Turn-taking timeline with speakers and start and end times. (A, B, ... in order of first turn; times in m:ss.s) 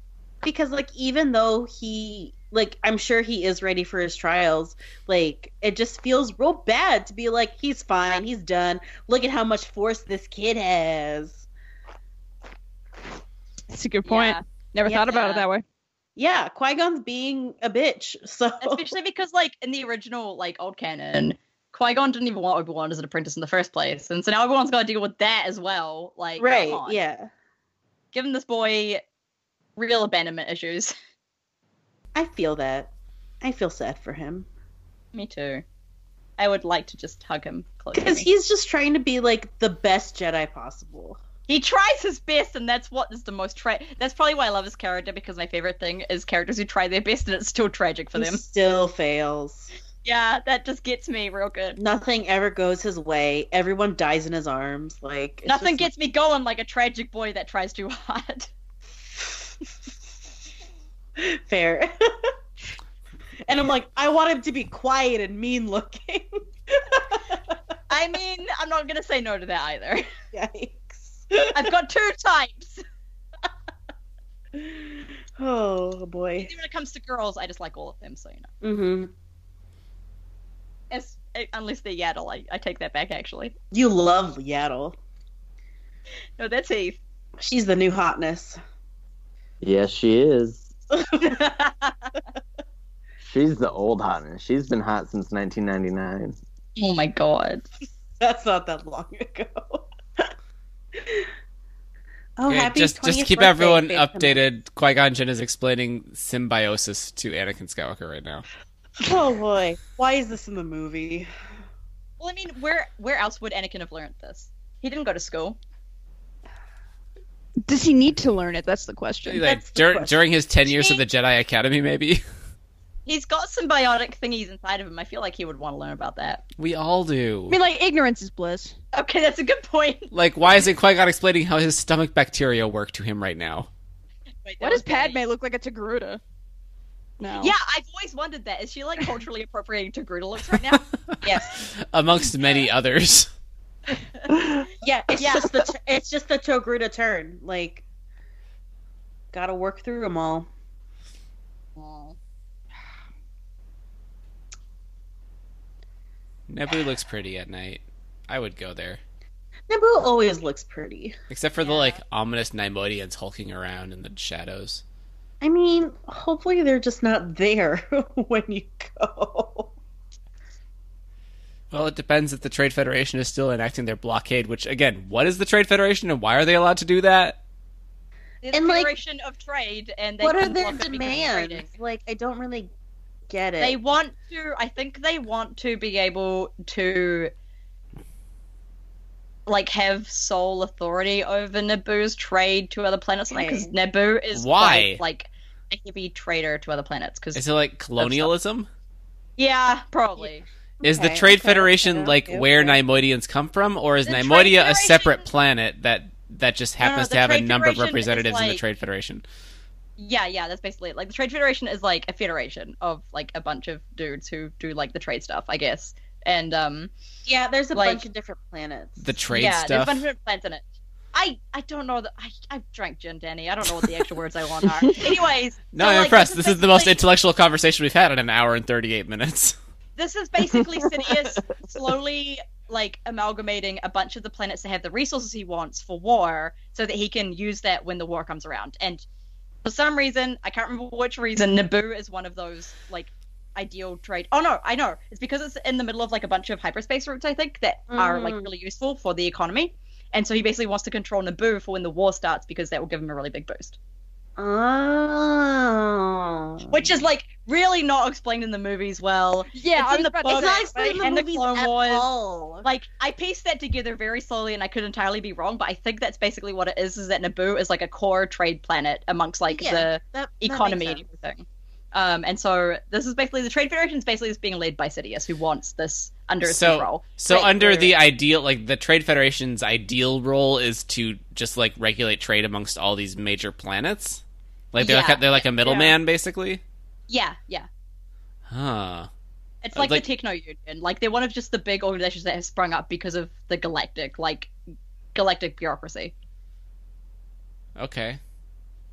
0:00.4-0:11.4 A
0:13.7-0:15.6 B
0:14.0-0:14.4 C
0:14.9-0:15.2 A
0:15.1-0:15.4 C
0:16.2-0:18.9 A
0:18.6-0:27.0 C
0:26.4-0:27.3 A
0:28.1-0:29.0 C
0:29.8-0:30.9 C
0:32.1-0:32.9 A
0:33.4-0:34.5 A
0:35.1-0:35.6 C
0:36.4-0:38.3 C
0:37.9-0:41.2 A
0:41.5-0:48.4 C
0:48.1-0:49.7 A
0:50.0-0:51.8 C
0:51.8-0:55.9 A
0:55.4-0:58.5 C
1:01.2-1:02.3 A
1:03.5-1:07.5 A
1:07.9-1:10.1 C
1:10.3-1:11.7 A
1:11.5-1:12.8 C
1:14.5-1:16.5 A
1:16.4-1:18.5 C
1:18.6-1:19.1 A
1:20.9-1:23.5 C
1:23.7-1:25.0 A
1:26.4-1:27.0 C
1:27.4-1:28.6 A
1:29.6-1:30.7 D
1:31.1-1:31.7 A
1:33.2-1:36.4 D
1:36.8-1:37.6 C
1:38.2-1:39.8 A
1:41.0-1:41.3 A
1:42.4-1:44.4 A
1:42.4-1:48.4 E
1:49.0-1:51.3 A
1:52.2-1:55.6 C
1:57.6-1:59.4 B
1:59.2-2:02.2 E
1:59.4-2:00.2 A
2:00.6-2:01.0 C
2:03.0-2:06.4 C
2:06.6-2:07.6 E
2:07.5-2:08.7 B
2:08.9-2:10.1 C
2:10.1-2:13.7 E
2:14.4-2:15.2 C
2:14.6-2:16.2 B
2:17.2-2:17.5 B
2:17.3-2:20.9 C
2:21.1-2:23.3 E
2:24.8-2:27.8 A
2:25.2-2:25.5 C
2:29.3-2:30.5 A
2:31.8-2:32.2 C
2:36.5-2:39.0 E
2:39.7-2:41.1 A
2:41.3-2:44.8 E
2:41.6-2:42.0 C
2:45.4-2:49.7 A
2:51.7-2:57.4 E
2:58.4-3:01.7 C
2:58.5-2:58.9 A
3:00.2-3:02.7 A
3:03.3-3:03.8 A
3:03.6-3:07.3 C
3:09.4-3:17.4 C
3:13.3-3:13.7 A
3:14.3-3:15.0 E
3:17.3-3:18.7 E
3:18.0-3:18.3 C
3:19.4-3:20.4 C
3:20.8-3:22.8 A
3:20.8-3:29.2 E
3:24.0-3:25.3 C
3:26.8-3:28.6 C
3:30.0-3:36.9 C
3:37.2-3:39.1 A
3:37.7-3:38.0 C
3:39.0-3:40.0 E
3:39.3-3:47.0 C
3:45.7-3:49.6 E
3:50.0-3:59.0 C
3:59.6-4:13.8 C
4:07.9-4:08.5 A
4:14.4-4:16.9 A
4:16.7-4:22.1 C
4:19.5-4:21.0 B
4:20.2-4:22.6 A
4:22.6-4:37.8 C
4:29.5-4:31.0 A
4:36.4-4:44.2 E
4:37.3-4:37.9 A
4:44.7-4:46.6 E
4:44.8-4:45.9 C
4:47.1-4:47.7 C
4:48.5-4:49.1 E
4:49.6-4:54.5 C
4:49.7-4:50.0 E
4:55.1-4:56.1 C
4:57.8-4:58.2 E